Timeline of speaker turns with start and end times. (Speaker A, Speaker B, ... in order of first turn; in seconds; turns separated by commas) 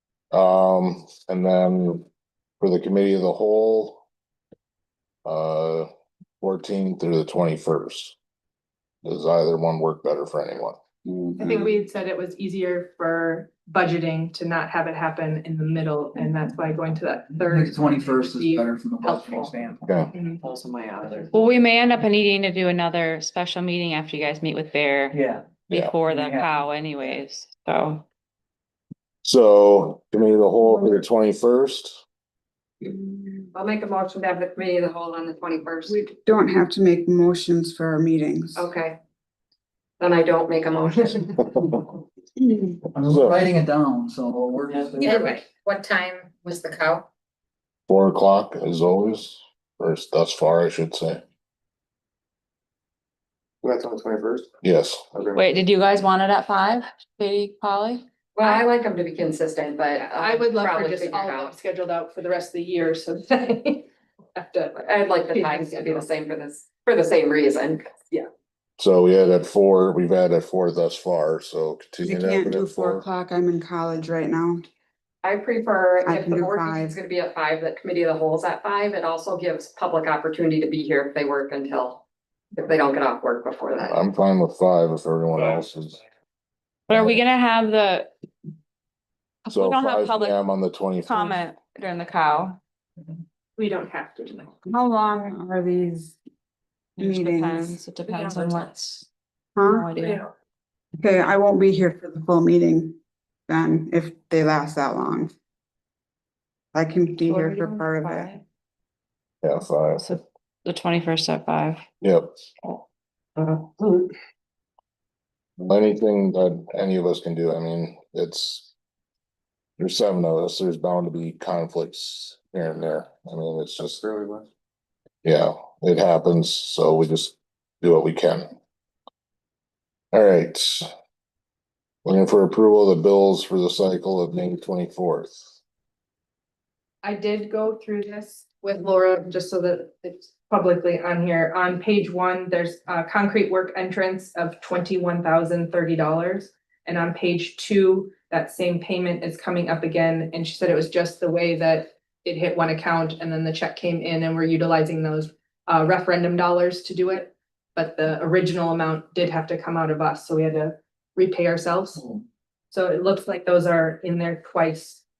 Speaker A: 0.3-2.0, Speaker A: 2.6-4.0, Speaker A: 5.2-5.9, Speaker A: 6.4-8.1, Speaker A: 9.0-10.8, Speaker B: 11.0-11.7, Speaker C: 11.4-18.7, Speaker D: 17.4-20.5, Speaker E: 19.0-19.5, Speaker C: 20.1-20.4, Speaker F: 20.7-21.1, Speaker E: 20.9-21.2, Speaker G: 21.3-28.0, Speaker D: 25.1-25.5, Speaker A: 25.7-26.0, Speaker D: 26.1-26.5, Speaker A: 29.2-32.0, Speaker B: 30.6-31.0, Speaker B: 32.8-33.5, Speaker E: 33.5-36.0, Speaker B: 35.9-38.7, Speaker E: 38.5-39.0, Speaker E: 40.0-41.7, Speaker D: 42.9-45.3, Speaker A: 43.0-43.4, Speaker H: 45.0-47.0, Speaker A: 47.9-51.2, Speaker F: 53.6-54.5, Speaker A: 54.6-55.0, Speaker F: 55.1-55.4, Speaker G: 55.3-58.0, Speaker E: 58.3-61.5, Speaker C: 59.9-66.0, Speaker E: 64.8-67.9, Speaker A: 68.8-73.0, Speaker B: 72.0-74.6, Speaker E: 75.2-82.0, Speaker B: 76.0-77.0, Speaker E: 82.5-84.0, Speaker A: 83.8-86.0, Speaker F: 85.3-86.0, Speaker G: 86.9-88.1, Speaker G: 89.4-90.3, Speaker A: 89.5-91.4, Speaker G: 91.0-92.6, Speaker C: 93.6-94.5, Speaker B: 94.7-96.2, Speaker B: 97.0-97.8, Speaker G: 97.0-99.0, Speaker C: 98.1-98.7, Speaker B: 99.5-99.9, Speaker G: 99.6-100.3, Speaker B: 101.0-103.0, Speaker B: 103.5-105.3, Speaker B: 106.7-108.3, Speaker G: 107.2-108.4, Speaker A: 109.4-110.0, Speaker G: 110.0-111.8, Speaker A: 112.0-112.3, Speaker A: 115.6-118.7, Speaker A: 119.8-124.0, Speaker F: 123.9-124.5, Speaker A: 125.2-128.5, Speaker A: 130.1-130.8, Speaker A: 132.0-135.5, Speaker C: 137.0-162.1, Speaker C: 162.7-165.0